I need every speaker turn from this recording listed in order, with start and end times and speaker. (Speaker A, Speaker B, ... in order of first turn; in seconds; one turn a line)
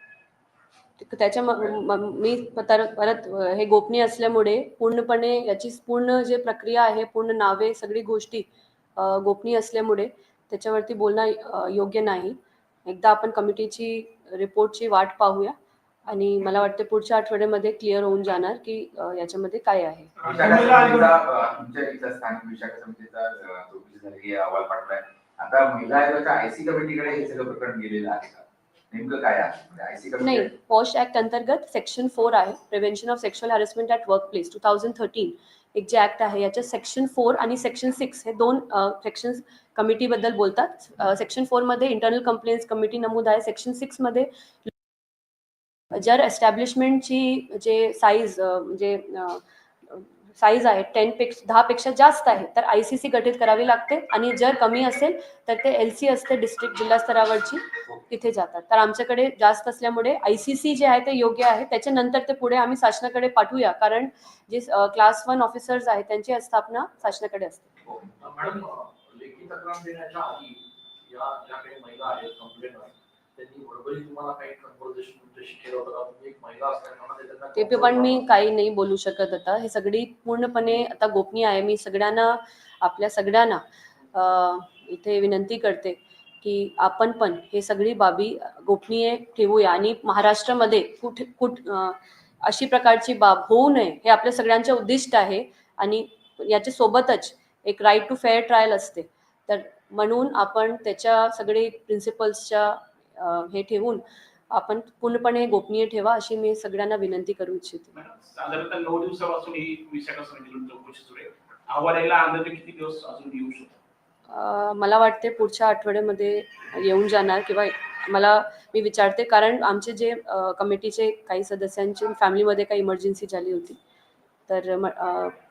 Speaker A: 1.0-20.1
Speaker B: 20.2-30.5
Speaker A: 30.2-44.7
Speaker A: 45.9-67.7
Speaker C: 68.2-78.2
Speaker A: 77.5-83.6
Speaker A: 84.1-107.9
Speaker D: 107.9-113.8
Speaker A: 114.3-123.8
Speaker A: 124.5-125.3